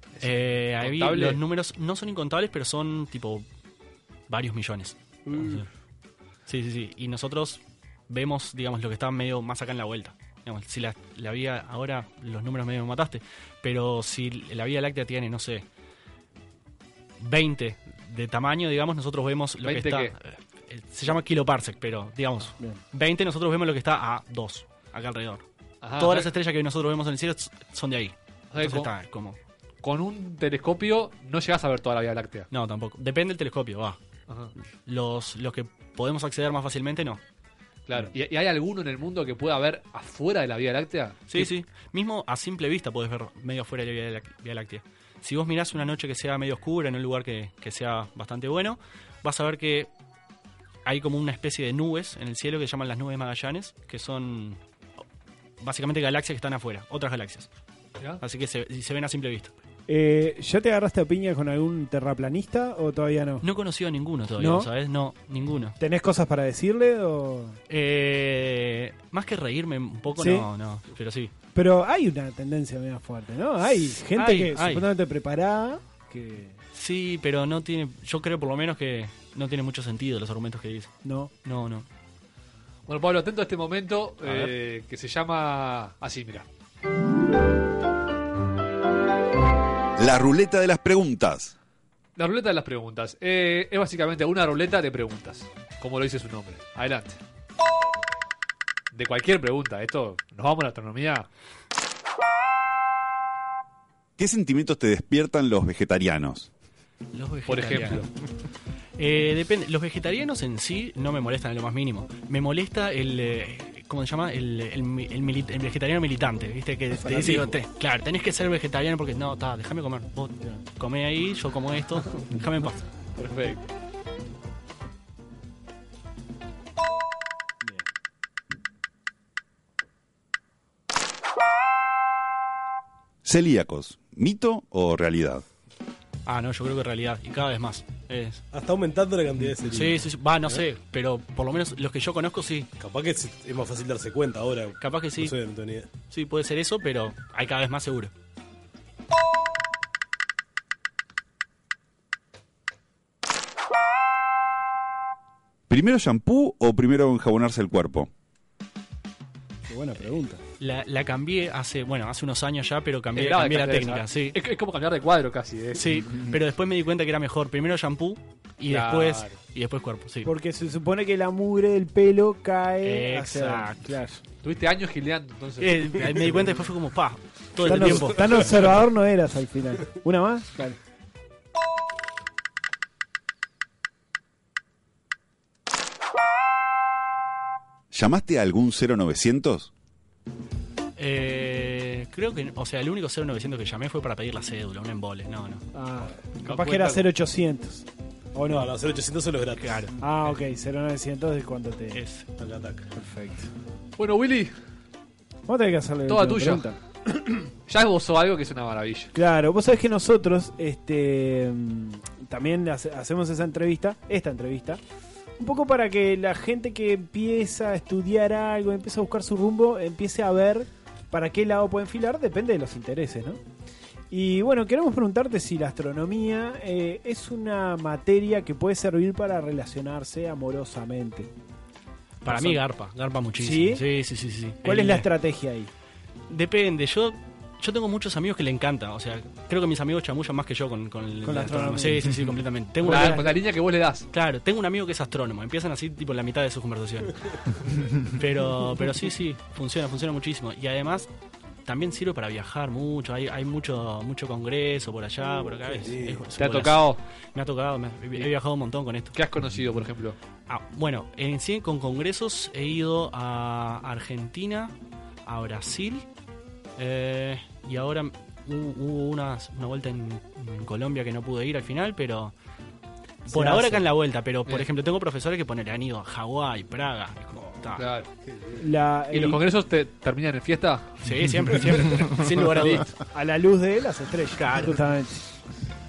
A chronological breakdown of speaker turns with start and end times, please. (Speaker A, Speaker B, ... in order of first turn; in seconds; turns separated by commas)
Speaker A: 0.1-1.4, Speaker B: 0.2-3.4, Speaker B: 4.3-5.7, Speaker C: 5.3-5.6, Speaker B: 6.5-15.6, Speaker B: 17.2-25.4, Speaker A: 19.6-20.1, Speaker A: 25.8-26.3, Speaker B: 26.0-29.4, Speaker A: 28.5-28.9, Speaker A: 29.8-32.5, Speaker B: 32.5-34.0, Speaker B: 34.9-37.2, Speaker A: 37.9-41.5, Speaker B: 41.3-49.9, Speaker B: 50.9-54.6, Speaker B: 55.6-57.5, Speaker B: 58.2-59.5, Speaker D: 59.9-63.4, Speaker B: 63.4-65.8, Speaker D: 64.4-64.7, Speaker D: 65.8-67.6, Speaker B: 67.7-71.3, Speaker D: 70.2-70.5, Speaker D: 71.5-76.6, Speaker B: 73.7-74.9, Speaker B: 76.7-80.9, Speaker D: 81.0-81.3, Speaker B: 81.4-81.8, Speaker A: 82.9-86.5, Speaker B: 84.2-84.5, Speaker E: 90.0-91.5, Speaker A: 92.2-97.2, Speaker A: 98.9-101.3, Speaker E: 104.2-106.5, Speaker B: 107.1-108.1, Speaker A: 107.5-108.1, Speaker B: 109.0-122.8, Speaker D: 117.2-117.5, Speaker A: 123.2-123.7, Speaker E: 133.2-135.4, Speaker B: 136.2-138.4, Speaker C: 138.5-140.6, Speaker B: 139.6-142.7, Speaker C: 142.8-145.9, Speaker B: 144.8-145.3, Speaker B: 146.1-148.1, Speaker E: 155.7-158.1, Speaker D: 159.7-160.4, Speaker B: 160.6-164.4, Speaker A: 163.1-165.8, Speaker B: 165.7-170.3, Speaker A: 168.7-169.4, Speaker D: 170.2-174.2, Speaker B: 172.8-173.9, Speaker A: 174.4-176.0, Speaker B: 175.6-178.5, Speaker D: 177.6-180.8, Speaker E: 187.9-189.7, Speaker B: 191.0-195.6, Speaker D: 195.7-198.7, Speaker A: 196.4-197.0, Speaker C: 198.5-199.8, Speaker B: 199.6-200.4, Speaker D: 200.0-202.0, Speaker B: 201.9-202.3, Speaker C: 202.4-202.8, Speaker D: 202.9-203.5, Speaker A: 204.0-204.5, Speaker D: 205.5-206.8, Speaker A: 206.1-206.6, Speaker A: 207.7-209.1, Speaker D: 209.1-214.8, Speaker D: 215.4-223.4, Speaker D: 224.1-231.3, Speaker B: 232.2-235.1, Speaker D: 232.3-232.6, Speaker D: 233.4-233.8, Speaker D: 234.6-235.7, Speaker B: 236.3-243.3, Speaker D: 241.2-242.2, Speaker A: 242.8-244.1, Speaker D: 242.8-243.3, Speaker B: 244.1-247.1, Speaker B: 248.1-251.1, Speaker B: 251.7-259.2, Speaker C: 255.6-256.2, Speaker A: 256.4-257.0, Speaker A: 259.1-260.1, Speaker B: 260.5-264.7, Speaker B: 265.2-266.1, Speaker B: 266.8-272.3, Speaker B: 273.2-277.9, Speaker D: 273.3-273.9, Speaker A: 277.8-278.1, Speaker D: 278.6-279.4, Speaker A: 279.1-280.9, Speaker B: 281.0-283.0, Speaker D: 283.1-285.2, Speaker B: 284.4-284.8